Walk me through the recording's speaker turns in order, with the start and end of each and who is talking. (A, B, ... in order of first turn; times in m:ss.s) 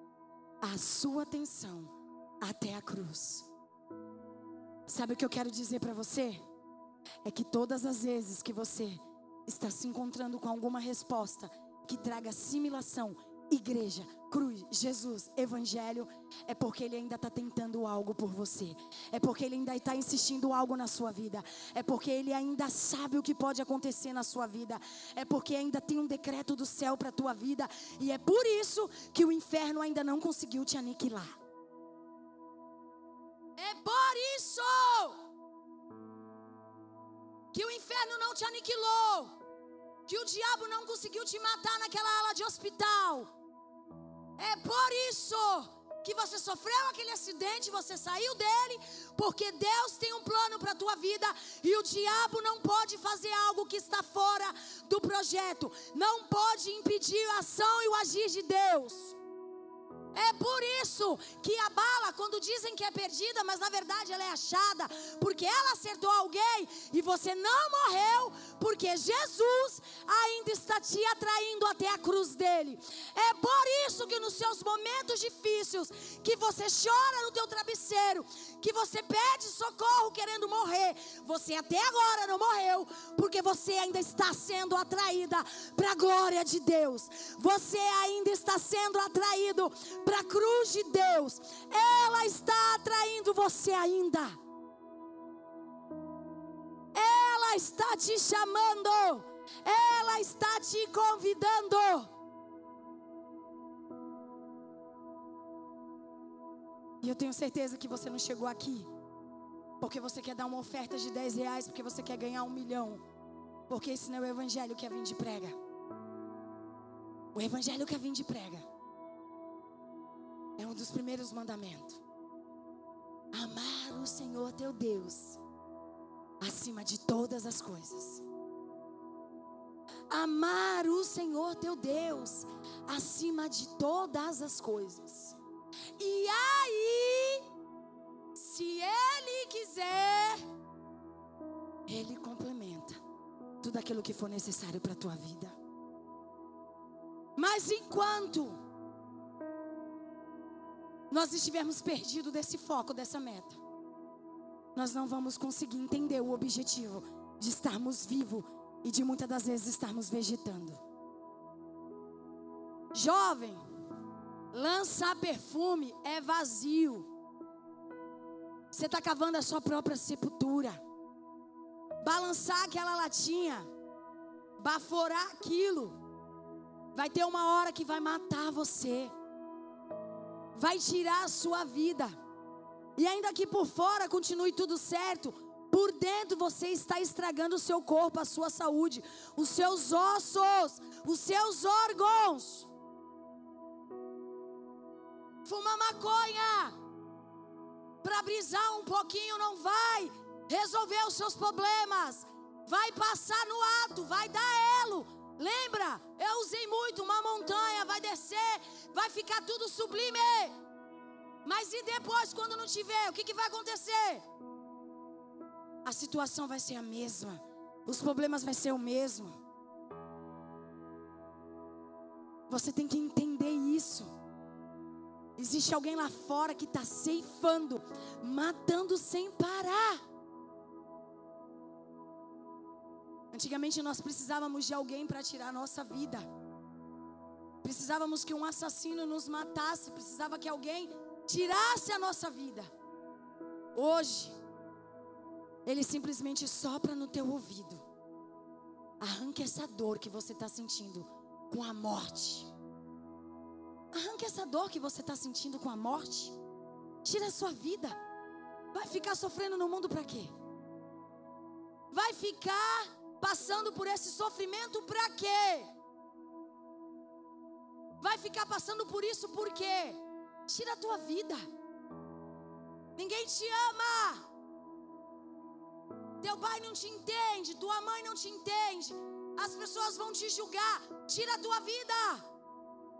0:00.6-0:03.5 A
0:04.9-0:06.4 A
0:07.2-0:31.4 A
0:33.6-0:35.2 A
0:37.5-0:39.4 A
0:40.1-0:43.3 A
0:44.4-0:59.2 A
1:00.1-1:34.4 A
1:36.9-1:42.1 A
1:47.0-1:48.9 A
1:49.8-1:53.0 A
1:53.7-1:55.6 A
1:57.3-1:58.7 A
2:00.6-2:02.0 A
2:03.3-2:05.4 A
2:06.4-2:08.2 A
2:10.1-2:15.4 A
2:16.0-2:17.5 A
2:18.3-2:20.5 A
2:21.9-2:23.0 A
2:23.6-2:25.5 A
2:27.4-2:28.6 A
2:31.1-2:33.6 A
2:34.7-2:40.8 A
2:42.9-2:43.6 A
2:44.5-2:47.1 A
2:48.7-2:50.8 A
2:52.0-2:53.7 A
2:54.6-2:56.0 A
2:56.9-2:59.1 A
3:00.5-3:02.1 A
3:03.0-3:12.7 A
3:15.4-3:16.8 A
3:18.0-3:30.6 A
3:31.4-3:34.2 A
3:35.8-3:39.4 A
3:42.5-3:44.1 A
3:45.4-3:50.0 A
3:53.3-3:56.3 A
3:57.6-4:02.7 A
4:03.7-4:04.4 A
4:05.6-4:07.8 A
4:09.0-4:12.5 A
4:13.9-4:16.4 A
4:17.0-4:18.0 A
4:18.7-4:20.3 A
4:21.9-4:25.7 A
4:28.0-4:31.4 A
4:33.0-4:34.2 A
4:36.2-4:42.2 A